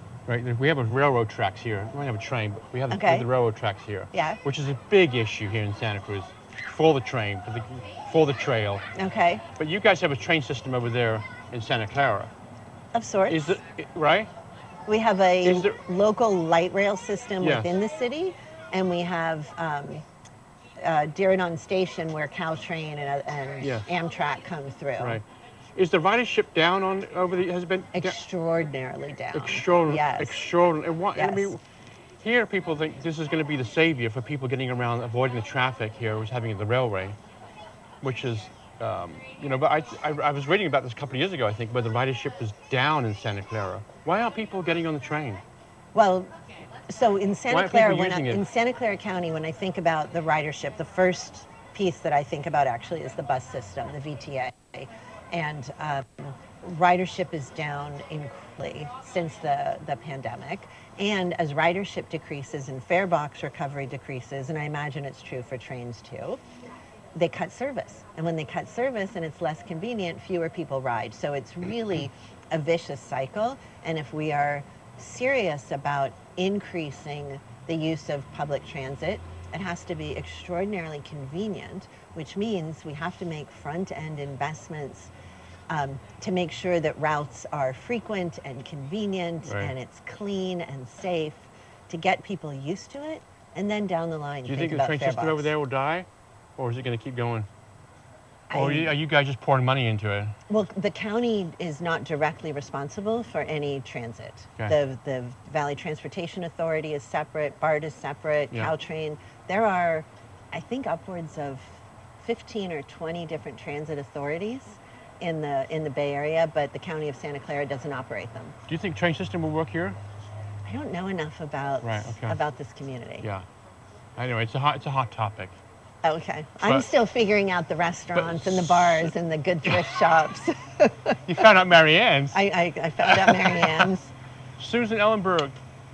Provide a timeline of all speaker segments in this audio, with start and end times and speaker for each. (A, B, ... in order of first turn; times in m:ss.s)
0:00.3-0:08.8 A
0:02.9-0:03.3 B
0:04.1-0:04.4 B
0:08.9-0:09.4 B
0:09.6-0:12.3 A
0:12.9-0:13.6 B
0:13.3-0:14.3 A
0:14.9-0:20.0 B
0:15.4-0:15.8 A
0:17.4-0:17.8 A
0:20.8-0:25.2 B
0:25.0-0:25.2 A
0:25.8-0:28.2 A
0:27.9-0:30.4 B
0:29.3-0:31.6 A
0:31.1-0:31.5 B
0:32.2-0:37.2 A
0:38.0-0:45.4 A
0:45.9-0:46.3 B
0:46.9-1:06.4 B
0:47.5-0:48.4 A
1:07.1-1:25.1 B
1:25.7-1:35.5 B
1:29.4-1:29.7 A
1:34.4-1:37.5 A
1:38.5-1:38.9 B
1:38.5-1:40.3 A
1:40.5-1:58.5 B
1:58.7-2:00.0 A
2:00.6-2:03.3 B
2:01.8-2:02.4 A
2:04.2-2:05.6 A
2:06.0-2:11.4 B
2:06.6-2:06.9 A
2:08.1-2:09.1 A
2:11.2-2:12.4 A
2:12.3-2:14.1 B
2:13.0-2:13.9 A
2:14.6-2:15.6 A